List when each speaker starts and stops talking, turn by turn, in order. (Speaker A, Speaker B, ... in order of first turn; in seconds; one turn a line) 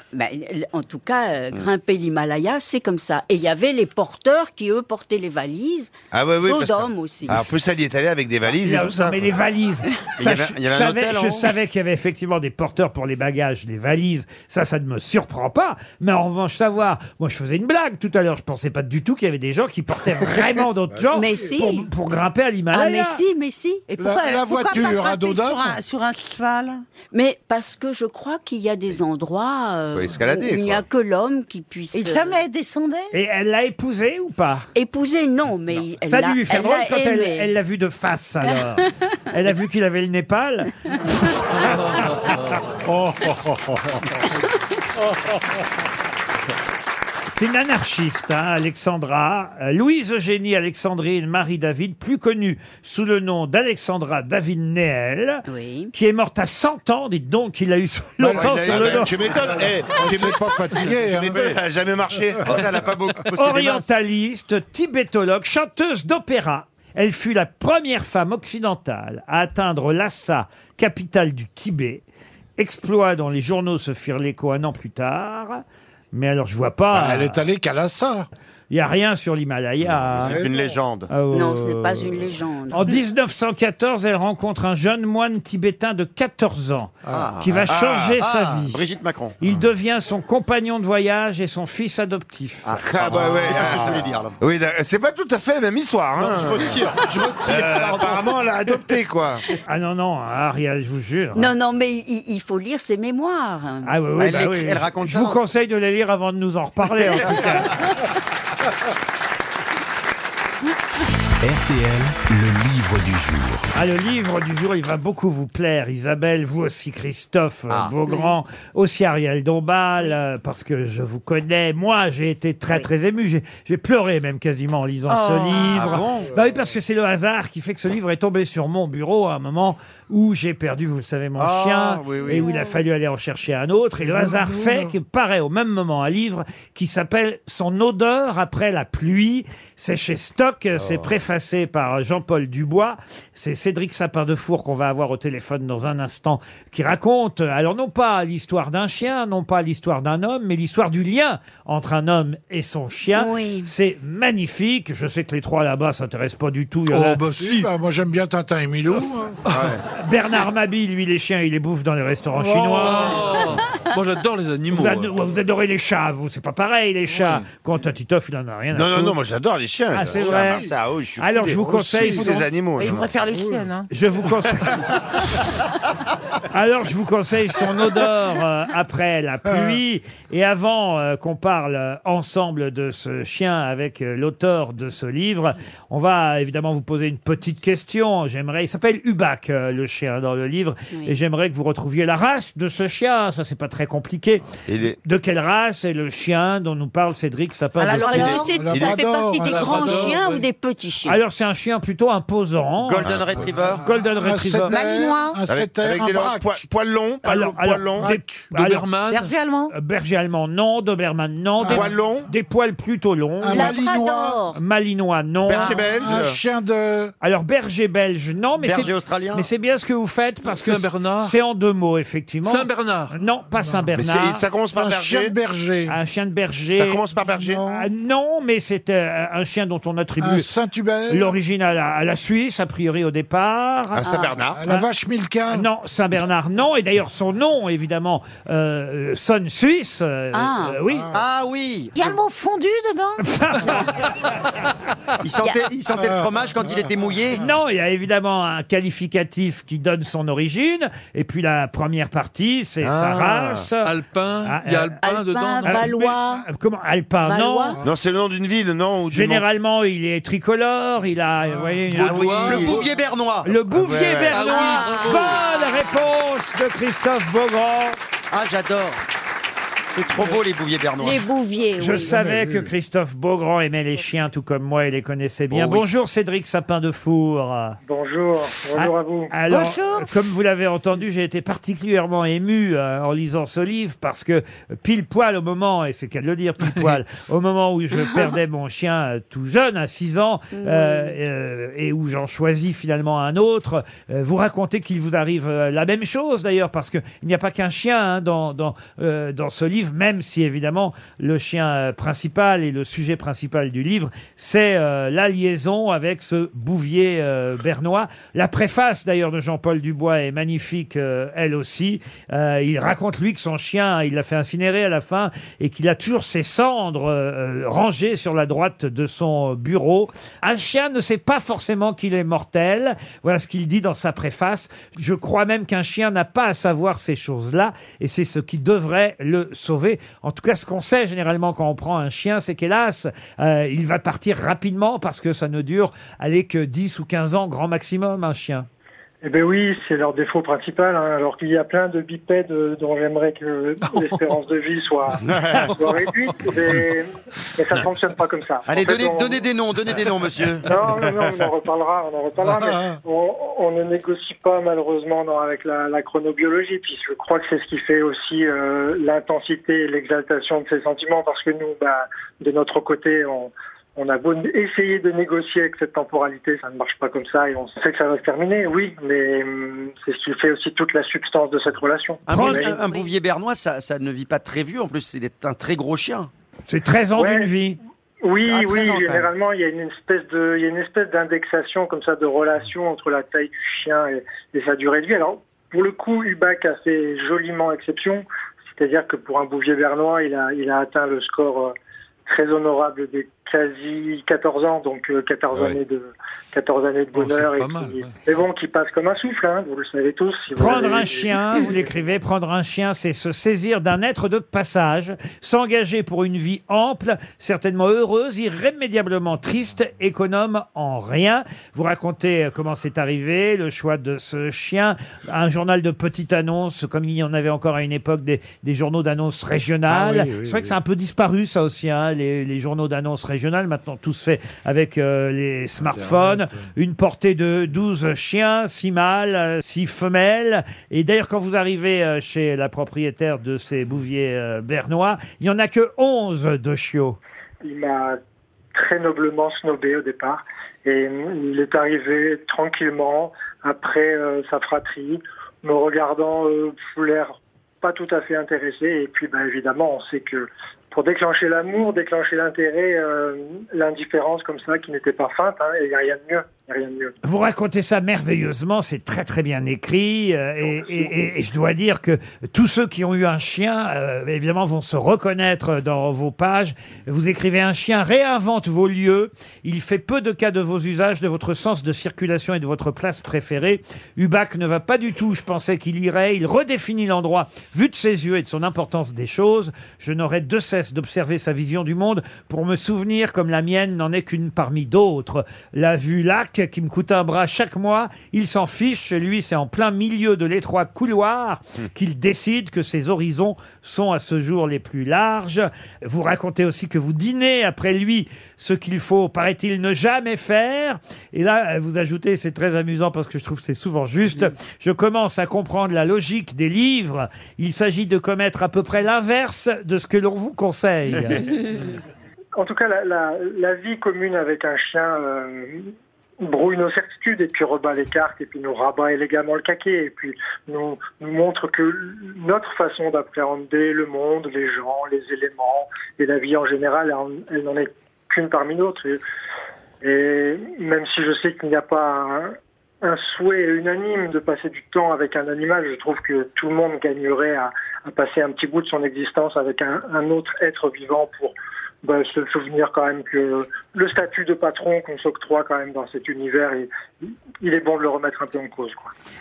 Speaker A: 0.1-7.5
Speaker B: 6.1-9.3
Speaker C: 8.6-23.2
Speaker D: 10.2-11.5
Speaker E: 20.9-21.5
Speaker A: 21.1-21.9
Speaker A: 22.7-23.8
Speaker F: 23.9-26.8
Speaker E: 24.0-25.8
Speaker A: 27.1-32.4
Speaker B: 29.9-30.8
Speaker F: 31.9-33.1
Speaker C: 33.1-34.7
Speaker A: 34.7-37.5
Speaker C: 36.0-41.8
Speaker G: 41.8-42.6
Speaker E: 42.8-44.1
Speaker C: 47.4-59.2
Speaker A: 55.5-55.9
Speaker D: 58.2-59.6
Speaker E: 58.2-58.9
Speaker B: 58.4-62.7
Speaker E: 59.9-61.6
Speaker D: 62.4-63.9
Speaker C: 63.4-72.0
Speaker C: 72.6-77.4
Speaker E: 76.9-78.3
Speaker C: 78.7-80.4
Speaker B: 79.9-80.4
Speaker E: 80.2-80.5
Speaker D: 80.2-81.1
Speaker C: 81.1-88.8
Speaker A: 81.3-83.0
Speaker E: 87.0-87.3
Speaker D: 87.1-89.4
Speaker C: 89.4-92.7
Speaker D: 92.6-94.4
Speaker B: 92.8-99.4
Speaker D: 96.2-98.5
Speaker C: 99.7-101.5
Speaker A: 101.3-103.9
Speaker C: 103.8-107.7
Speaker D: 104.2-105.4
Speaker H: 111.4-113.7
Speaker C: 113.7-157.2
Speaker F: 125.1-125.8
Speaker D: 125.6-126.3
Speaker D: 131.4-132.5
Speaker A: 132.4-132.8
Speaker E: 134.0-134.9
Speaker B: 140.8-141.1
Speaker A: 153.1-153.7
Speaker G: 156.9-157.7
Speaker E: 157.2-159.4
Speaker G: 159.5-159.7
Speaker B: 159.5-159.8
Speaker C: 159.9-163.4
Speaker E: 162.4-162.9
Speaker G: 162.6-165.2
Speaker C: 164.7-169.2
Speaker G: 167.1-167.5
Speaker B: 168.7-173.1
Speaker C: 169.9-172.5
Speaker E: 170.2-170.7
Speaker E: 171.8-172.2
Speaker F: 172.8-173.9
Speaker E: 173.3-173.6
Speaker C: 173.9-175.2
Speaker C: 176.5-194.4
Speaker B: 194.7-195.0
Speaker C: 195.0-198.4
Speaker F: 197.8-198.6
Speaker A: 198.0-201.2
Speaker E: 198.4-200.2
Speaker G: 199.4-200.5
Speaker C: 201.0-203.1
Speaker D: 202.8-203.8
Speaker B: 203.0-203.4
Speaker E: 203.4-206.6
Speaker C: 203.8-204.8
Speaker F: 204.7-205.4
Speaker B: 205.4-208.1
Speaker C: 207.2-208.8
Speaker E: 207.9-208.4
Speaker G: 208.5-209.3
Speaker F: 209.1-209.7
Speaker C: 209.7-213.8
Speaker E: 211.6-211.9
Speaker B: 211.6-212.3
Speaker E: 213.4-214.5
Speaker A: 213.5-214.6
Speaker C: 214.5-215.9
Speaker B: 215.5-216.4
Speaker E: 215.6-217.1
Speaker F: 215.7-216.0
Speaker C: 217.2-224.4
Speaker D: 218.6-219.5
Speaker G: 220.4-221.3
Speaker G: 222.4-223.2
Speaker E: 223.5-223.9
Speaker B: 223.9-225.3
Speaker E: 224.7-225.9
Speaker C: 225.9-227.1
Speaker B: 226.7-227.6
Speaker E: 227.2-227.9
Speaker C: 227.7-230.5
Speaker E: 230.2-231.3
Speaker C: 231.1-234.8
Speaker B: 233.9-234.6
Speaker E: 234.4-235.7
Speaker C: 235.5-241.1
Speaker A: 240.3-240.8
Speaker E: 240.9-241.1
Speaker D: 241.1-242.1
Speaker F: 241.9-243.2
Speaker C: 243.2-244.0
Speaker D: 245.2-247.4
Speaker A: 245.4-245.7
Speaker C: 247.3-253.9
Speaker B: 252.8-253.7
Speaker G: 253.8-256.0
Speaker C: 254.4-254.9
Speaker A: 255.0-256.4
Speaker C: 255.6-257.8
Speaker A: 257.2-257.8
Speaker B: 257.8-259.4
Speaker C: 259.1-262.8
Speaker E: 261.5-261.9
Speaker G: 261.9-262.9
Speaker D: 262.1-263.6
Speaker C: 263.4-268.0
Speaker B: 263.7-264.3
Speaker G: 264.3-265.4
Speaker A: 264.4-266.1
Speaker D: 268.3-269.0
Speaker D: 269.9-271.3
Speaker A: 271.0-272.3
Speaker C: 271.8-277.8
Speaker E: 271.9-272.7
Speaker I: 277.8-279.3
Speaker C: 278.8-338.7
Speaker F: 279.5-280.1
Speaker A: 290.5-291.2
Speaker I: 339.2-349.4
Speaker D: 348.7-351.3
Speaker I: 350.6-372.7
Speaker D: 372.2-376.3
Speaker C: 372.3-372.8
Speaker A: 372.8-373.1
Speaker C: 376.7-377.8
Speaker I: 377.1-377.5
Speaker I: 378.2-391.7
Speaker D: 378.4-379.3
Speaker I: 392.2-401.9
Speaker G: 397.1-398.2
Speaker C: 400.6-437.2
Speaker E: 419.9-420.8
Speaker E: 425.9-426.6
Speaker I: 437.6-438.2
Speaker I: 438.7-457.1
Speaker C: 457.2-511.5
Speaker I: 460.8-461.1
Speaker I: 512.5-529.2
Speaker I: 530.0-549.1